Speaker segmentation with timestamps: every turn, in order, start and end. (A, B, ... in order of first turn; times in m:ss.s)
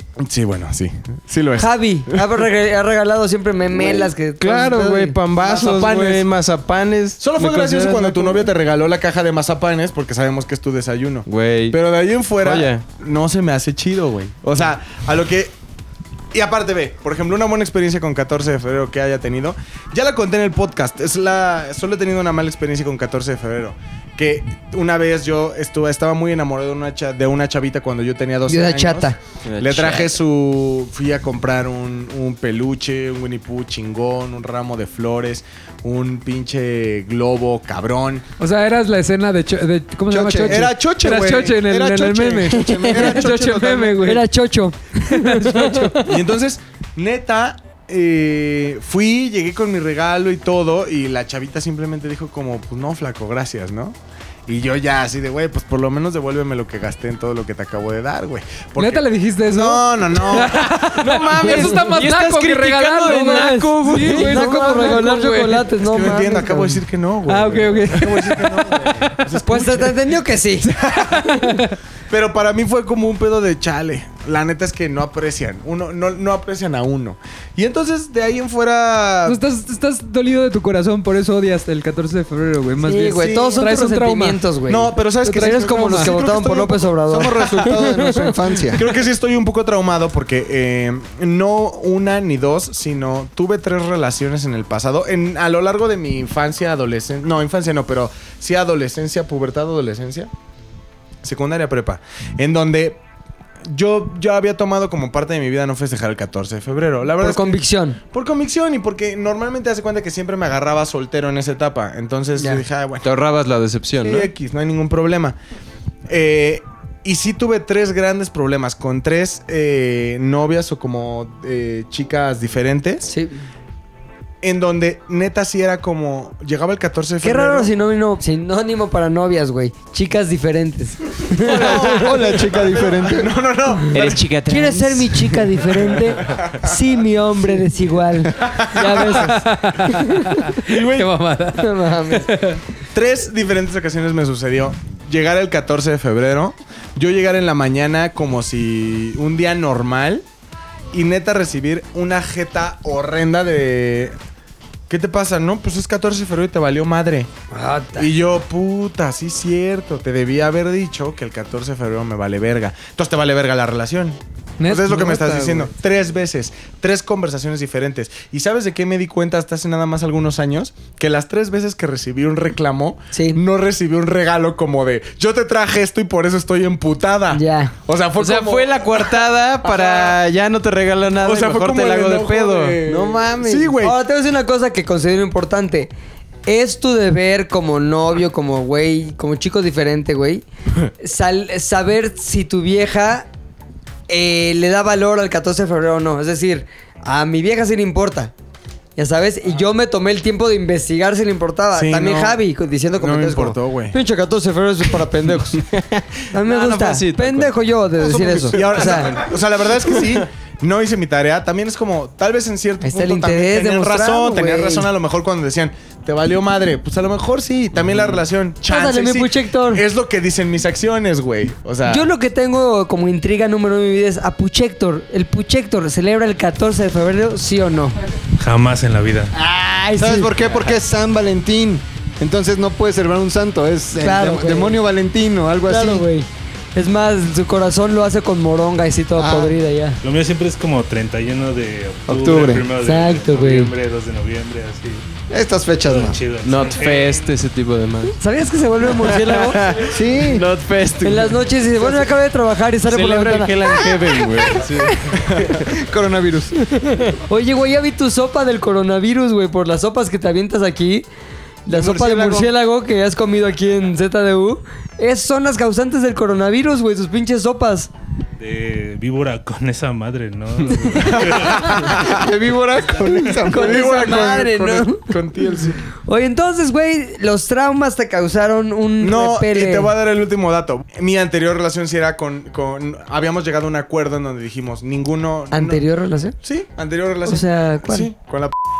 0:00.2-0:02.2 A
0:01.6-0:05.2 B
0:03.8-0:08.5 C
0:05.3-0:06.3 A
0:07.2-0:15.5 A
0:11.2-0:11.8 C
0:12.4-0:12.8 C
0:16.3-0:38.2 A
0:28.5-0:29.2 B
0:29.4-0:30.1 C
0:38.4-0:44.3 D
0:40.1-0:40.6 E
0:40.4-0:44.1 A
0:42.6-0:43.6 E
0:42.7-0:43.1 B
0:44.0-0:46.1 B
0:45.0-0:45.9 D
0:46.0-0:54.0 A
0:54.5-1:01.7 A
0:58.8-1:05.8 D
1:00.9-1:05.0 C
1:03.0-1:06.8 B
1:05.8-1:10.0 A
1:07.2-1:09.2 D
1:09.4-1:10.7 B
1:10.6-1:11.6 A
1:11.4-1:11.7 D
1:12.1-1:19.4 A
1:19.2-1:24.4 D
1:22.8-1:28.4 B
1:23.2-1:23.6 A
1:24.7-1:28.2 A
1:25.2-1:26.1 D
1:27.1-1:28.8 E
1:28.7-1:40.3 A
1:41.2-1:43.0 A
1:43.7-1:53.0 A
1:47.2-1:48.0 B
1:52.4-1:52.6 B
1:53.0-1:54.3 C
1:54.0-1:55.4 A
1:56.1-2:03.0 A
2:03.0-2:03.4 B
2:04.4-2:07.7 A
2:07.2-2:12.1 B
2:11.4-2:14.2 A
2:11.5-2:13.3 E
2:13.9-2:15.6 C
2:14.4-2:20.4 B
2:15.7-2:16.7 A
2:18.4-2:19.3 A
2:19.2-2:22.6 D
2:20.6-2:21.1 A
2:21.6-2:22.3 B
2:22.9-2:30.2 A
2:30.9-2:34.1 A
2:34.9-2:37.3 A
2:37.5-2:38.1 B
2:38.0-3:00.2 A
2:44.6-2:45.6 D
2:53.1-2:53.4 B
2:57.3-2:57.7 B
2:58.2-3:03.7 C
3:01.2-3:04.0 A
3:03.8-3:05.9 B
3:06.4-3:10.4 B
3:11.0-3:13.3 B
3:14.1-3:18.3 B
3:19.0-3:25.6 B
3:21.7-3:24.0 A
3:25.7-3:27.5 C
3:26.3-3:29.2 B
3:28.1-3:42.1 A
3:28.5-3:30.2 C
3:32.8-3:34.9 B
3:37.8-3:38.2 C
3:38.6-3:39.8 B
3:41.8-3:48.0 B
3:48.4-3:49.3 F
3:49.3-3:50.3 B
3:49.9-3:56.1 E
3:54.0-3:54.8 B
3:55.7-4:00.0 B
3:59.2-3:59.6 E
4:00.0-4:05.0 F
4:02.1-4:02.7 E
4:02.8-4:03.7 B
4:05.3-4:06.2 E
4:05.8-4:07.3 F
4:06.4-4:08.2 C
4:08.2-4:09.6 B
4:09.0-4:11.9 C
4:09.8-4:10.5 E
4:11.0-4:13.9 B
4:12.9-4:15.6 C
4:14.5-4:15.1 B
4:15.4-4:16.5 E
4:16.7-4:21.0 B
4:21.6-4:27.9 B
4:21.7-4:22.5 E
4:28.4-4:31.7 F
4:31.6-4:34.2 E
4:31.7-4:32.2 A
4:33.4-4:35.1 B
4:33.4-4:35.8 A
4:36.0-4:39.9 B
4:39.0-4:45.8 A
4:45.5-4:46.4 B
4:46.4-4:48.5 A
4:47.2-4:48.1 B